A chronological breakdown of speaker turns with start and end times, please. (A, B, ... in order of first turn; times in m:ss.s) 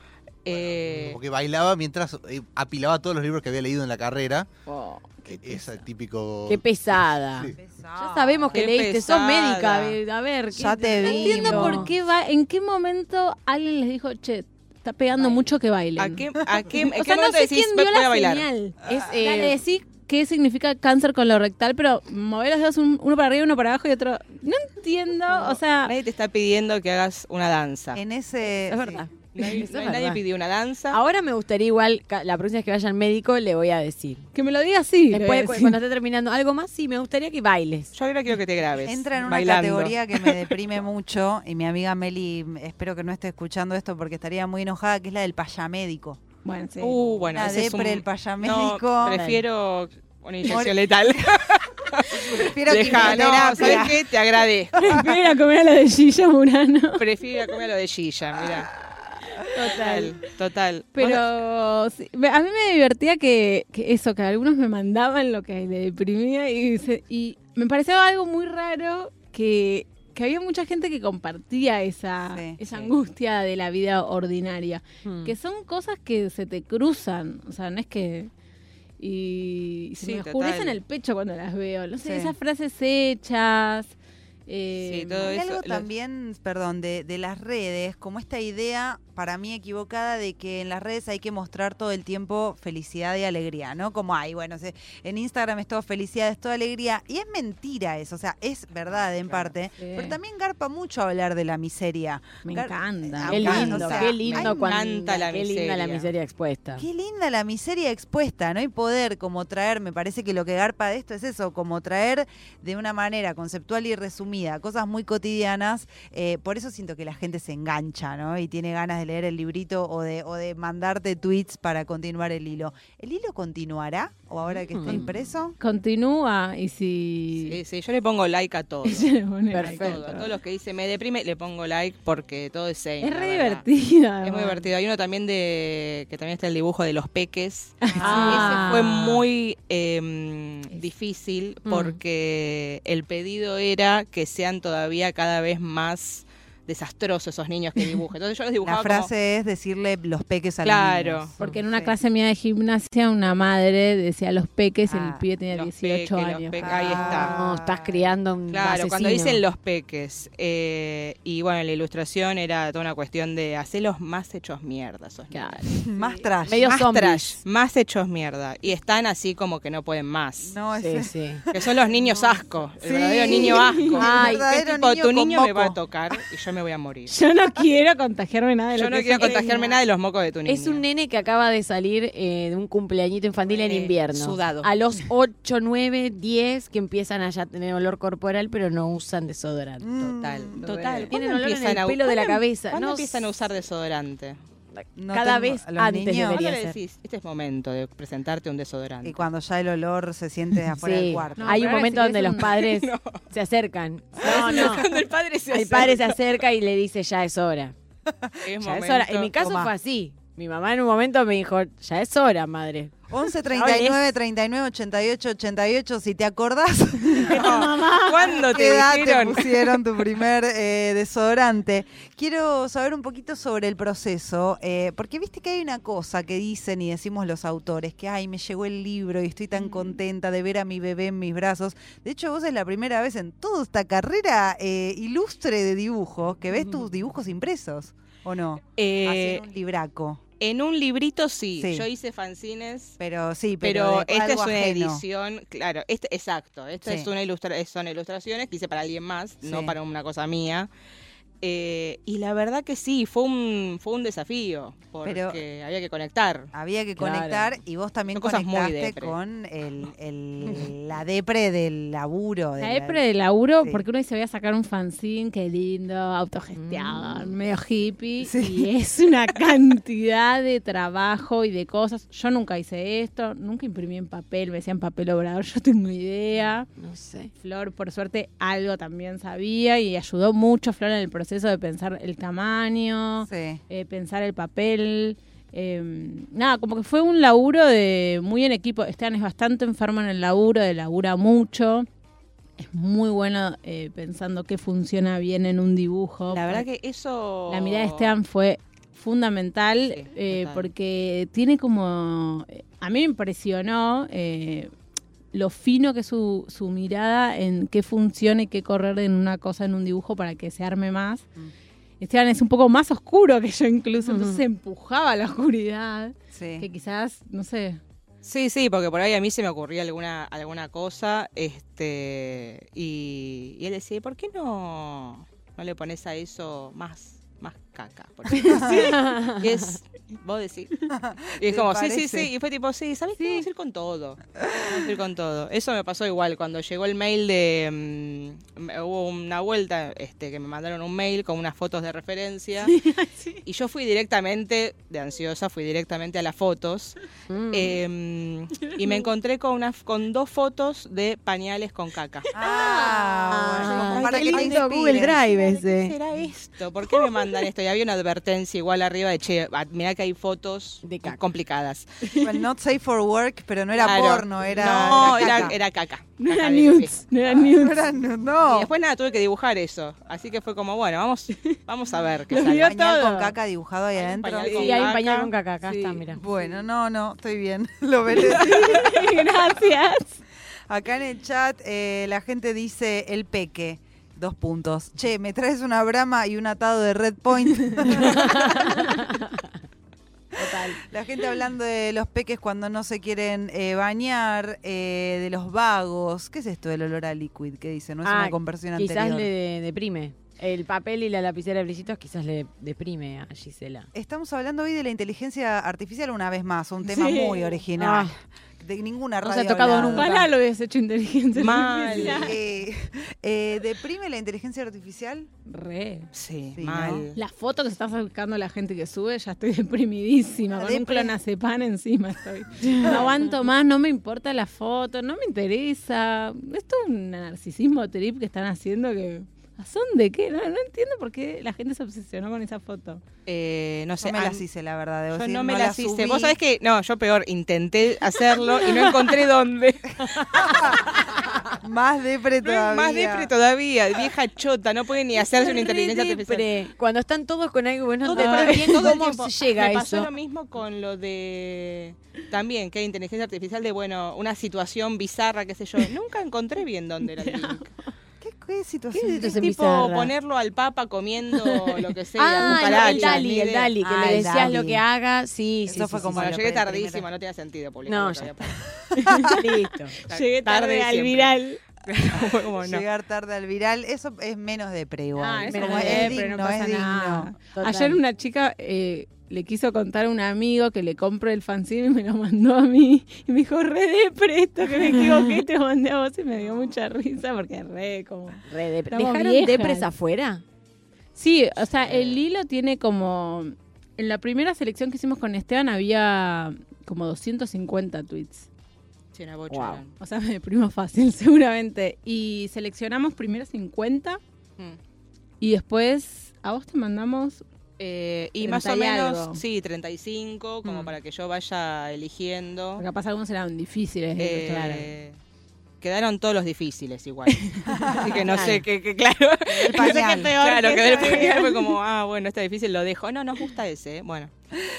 0:00.4-0:01.2 A
0:00.5-0:04.5 B
0:04.7-0:05.8 C
0:05.3-0:07.6 B
0:06.5-0:11.9 D
0:07.6-0:08.7 E
0:08.5-0:10.0 A
0:10.5-0:11.9 E
0:11.0-0:26.0 C
0:15.2-0:15.4 D
0:16.0-0:18.5 A
0:18.9-0:19.6 D
0:25.3-0:28.0 A
0:27.9-0:29.0 E
0:28.6-0:30.2 D
0:29.3-0:31.0 A
0:30.9-0:34.3 D
0:34.3-0:35.8 C
0:35.1-0:37.9 D
0:37.9-0:40.5 A
0:38.8-0:46.2 E
0:46.4-0:47.0 C
0:46.8-0:55.0 A
0:47.3-0:49.2 E
0:49.1-0:49.4 D
0:50.4-0:51.2 E
0:52.1-0:54.2 E
0:54.8-0:57.0 C
0:54.8-0:55.2 E
0:57.0-0:58.7 A
0:59.5-1:00.1 C
0:59.6-1:00.1 D
0:59.6-1:01.2 A
1:01.0-1:18.3 C
1:12.3-1:12.6 E
1:15.0-1:15.3 D
1:19.0-1:24.0 C
1:20.0-1:20.8 A
1:22.0-1:22.4 E
1:24.5-1:25.4 C
1:24.8-1:25.9 A
1:25.2-1:44.7 E
1:39.8-1:40.2 C
1:42.4-1:43.7 C
1:43.3-1:46.1 A
1:43.3-1:46.8 D
1:46.8-2:05.6 E
2:04.7-2:05.1 D
2:05.6-2:07.6 C
2:07.4-2:13.6 A
2:08.8-2:10.2 C
2:09.5-2:10.3 D
2:13.0-2:14.7 C
2:14.2-2:29.1 A
2:17.8-2:19.2 C
2:17.9-2:18.6 E
2:18.0-2:18.7 D
2:21.7-2:22.0 D
2:28.6-2:32.0 E
2:30.6-2:31.3 A
2:31.4-2:37.2 C
2:34.9-2:35.2 E
2:35.5-2:37.4 A
2:36.6-2:38.1 E
2:36.9-2:39.4 D
2:38.5-2:45.7 A
2:45.3-2:45.7 D
2:45.7-2:46.7 E
2:46.0-2:46.3 C
2:46.5-2:47.4 D
2:46.6-2:50.6 A
2:50.4-2:56.2 E
2:50.8-2:51.4 D
2:51.5-2:57.1 A
2:53.4-2:54.0 C
2:54.0-2:54.4 D
2:57.1-2:59.8 C
2:58.8-3:00.8 A
2:59.2-2:59.6 D
3:00.5-3:10.1 D
3:03.5-3:04.7 A
3:09.8-3:10.6 E
3:10.2-3:14.4 A
3:10.6-3:11.1 C
3:11.1-3:13.3 D
3:14.7-3:16.8 D
3:15.0-3:16.4 E
3:16.3-3:19.2 A
3:19.0-3:21.8 E
3:20.8-3:24.9 D
3:21.4-3:22.6 C
3:22.4-3:23.2 A
3:24.2-3:26.2 A
3:25.5-3:27.8 D
3:28.1-3:28.4 E
3:28.4-3:29.4 A
3:28.6-3:34.0 D
3:29.4-3:29.7 E
3:33.1-3:37.7 E
3:37.1-3:38.4 C
3:37.3-3:39.8 A
3:38.2-4:00.2 E
3:58.8-3:59.4 A
4:00.4-4:03.0 A
4:01.6-4:01.9 E
4:03.0-4:05.0 E
4:03.6-4:10.7 A
4:06.8-4:07.1 E
4:09.4-4:09.8 E
4:11.4-4:16.5 A
4:15.0-4:15.4 E
4:16.5-4:23.0 E
4:17.0-4:17.5 D
4:18.1-4:19.2 A
4:22.6-4:36.7 C
4:26.6-4:27.3 D
4:28.2-4:28.7 E
4:36.8-4:37.3 D
4:37.4-4:51.9 C
4:43.3-4:43.6 E
4:52.6-4:56.6 C
4:56.3-4:58.2 A
4:57.5-5:04.7 C
4:59.9-5:00.7 A
5:05.3-5:11.3 C
5:12.0-5:17.8 C
5:14.1-5:14.4 D
5:16.3-5:16.7 E
5:18.2-5:30.7 A
5:28.4-5:29.0 C
5:28.5-5:28.8 E
5:28.5-5:29.5 D
5:30.9-5:32.3 E
5:31.4-5:42.8 A
5:34.4-5:34.9 E
5:42.6-5:43.4 C
5:43.4-5:47.0 A
5:47.3-5:47.8 D
5:47.5-5:52.3 A
5:48.6-5:49.1 C
5:52.3-5:55.2 E
5:52.4-5:53.3 C
5:52.6-5:56.0 D
5:53.5-6:02.1 A
6:00.8-6:01.2 D
6:02.2-6:05.6 E
6:03.8-6:07.3 A
6:05.0-6:05.4 C
6:06.2-6:07.9 C
6:07.4-6:08.7 E
6:08.5-6:12.8 A
6:12.3-6:13.4 C
6:12.5-6:14.8 E
6:14.0-6:15.3 A
6:14.5-6:14.9 C
6:14.6-6:16.2 D
6:15.6-6:16.1 C
6:16.1-6:19.2 E
6:18.1-6:20.2 C
6:20.7-6:28.9 E
6:27.7-6:28.0 C
6:28.0-6:29.3 D
6:30.3-6:39.3 E
6:30.4-6:30.8 D
6:38.0-6:43.9 D
6:43.9-6:50.2 E
6:46.8-6:47.6 C
6:47.8-6:48.1 D
6:49.2-6:50.3 D
6:49.7-6:52.4 C
6:51.4-6:52.3 A
6:52.0-6:55.3 E
6:55.5-6:56.1 C
6:56.1-6:57.2 A
6:56.6-6:57.1 E
6:57.2-7:13.0 C
7:00.5-7:01.2 E
7:02.6-7:03.1 D
7:13.3-7:14.4 A
7:14.0-7:16.4 E
7:15.1-7:20.8 A
7:18.5-7:19.0 D
7:20.0-7:21.2 D
7:20.4-7:20.9 E
7:21.5-7:23.3 E
7:22.4-7:26.5 A
7:25.1-7:30.1 D
7:28.0-7:37.7 A
7:28.2-7:28.6 C
7:37.1-7:37.9 C
7:38.2-7:39.5 E
7:39.0-7:40.1 D
7:39.0-7:43.8 A
7:41.4-7:41.8 C
7:42.2-7:46.3 D
7:42.4-7:43.2 C
7:43.8-7:44.8 E
7:45.7-7:47.1 E
7:46.1-7:48.6 A
7:47.9-7:48.6 D
7:48.9-7:49.4 E
7:49.0-7:49.4 C
7:49.2-7:50.0 D
7:49.9-7:51.6 C
7:50.0-7:52.8 A
7:52.1-7:57.3 E
7:55.2-8:09.9 C
7:55.4-7:56.2 D
7:57.5-7:58.0 D
8:04.8-8:05.4 D
8:08.5-8:10.4 D
8:11.2-8:18.5 C
8:19.1-8:19.9 A
8:19.5-8:19.8 D
8:20.0-8:24.2 C
8:25.4-8:27.4 C
8:27.8-8:32.8 A
8:28.4-8:29.4 C
8:32.8-8:34.9 C
8:34.2-8:35.2 A
8:35.8-8:44.3 A
8:37.3-8:38.2 C
8:37.7-8:38.1 E
8:38.2-8:38.6 D
8:39.5-8:40.4 E
8:39.6-8:41.7 C